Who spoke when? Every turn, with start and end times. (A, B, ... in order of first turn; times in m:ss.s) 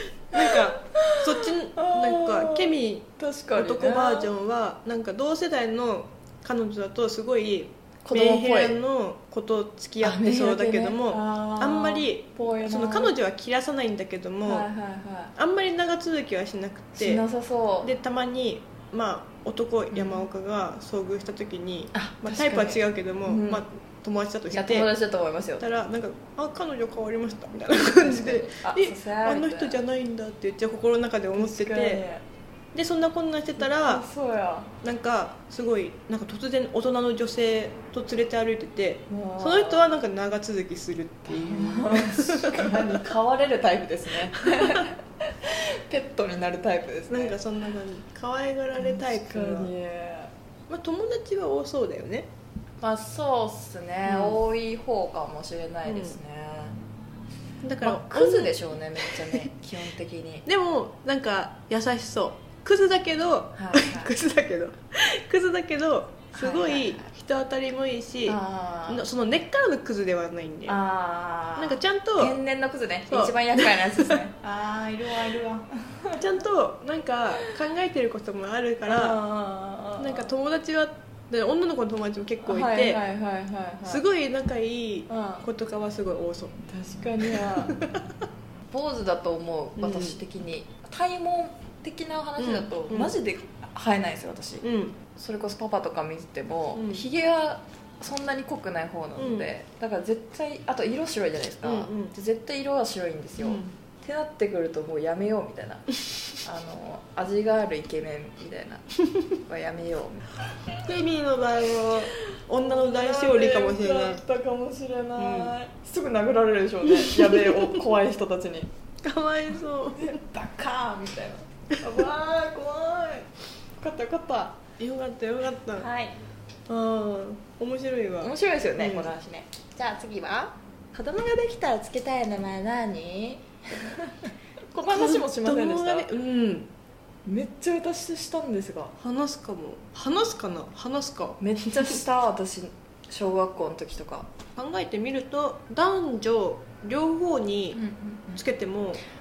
0:00.3-0:14.7 A
0:00.4-0:04.3 B
0:08.0-0:08.8 B
0:10.0-0:13.1 B
0:14.4-0:15.3 B
0:15.4-0:17.2 A
0:17.0-0:17.9 B
0:17.8-0:24.9 A
0:19.9-0:20.3 B
0:21.9-0:23.6 B
0:24.5-0:25.7 B
0:25.6-0:32.0 A
0:28.0-0:29.8 B
0:31.3-0:32.2 B
0:32.7-0:34.0 A
0:33.6-0:34.7 B
0:34.8-0:43.0 A
0:39.1-0:39.9 B
0:41.3-0:47.4 B
0:44.4-0:44.9 A
0:47.1-0:49.7 A
0:48.8-0:50.3 B
0:50.7-0:52.3 A
0:52.8-0:56.8 B
0:54.0-0:54.4 A
0:55.8-0:56.2 A
0:57.6-0:59.5 A
0:57.8-1:00.4 B
1:00.4-1:08.4 A
1:03.6-1:04.1 B
1:06.3-1:07.1 B
1:08.3-1:09.0 B
1:08.9-1:10.8 A
1:10.7-1:16.2 B
1:11.6-1:12.4 A
1:13.1-1:14.2 A
1:16.2-1:19.2 A
1:18.8-1:20.3 B
1:20.0-1:23.0 A
1:22.4-1:24.0 B
1:23.8-1:26.6 A
1:25.1-1:25.4 B
1:26.7-1:27.8 B
1:27.2-1:28.0 A
1:28.7-1:48.8 B
1:29.8-1:30.2 A
1:32.4-1:33.1 A
1:34.6-1:35.0 A
1:36.7-1:37.0 A
1:39.2-1:39.5 A
1:41.6-1:42.1 A
1:43.4-1:43.7 A
1:49.4-1:50.2 B
1:50.8-1:54.2 A
1:52.6-1:58.7 B
1:55.2-1:55.5 A
1:56.8-1:57.8 A
1:59.0-2:00.2 A
1:59.9-2:04.6 B
2:04.8-2:05.9 A
2:05.8-2:06.1 B
2:06.7-2:09.1 A
2:08.2-2:16.1 B
2:14.8-2:16.7 A
2:17.2-2:18.9 B
2:19.0-2:22.0 A
2:21.4-2:24.3 B
2:24.6-2:27.8 A
2:27.7-2:28.4 B
2:28.4-2:29.0 A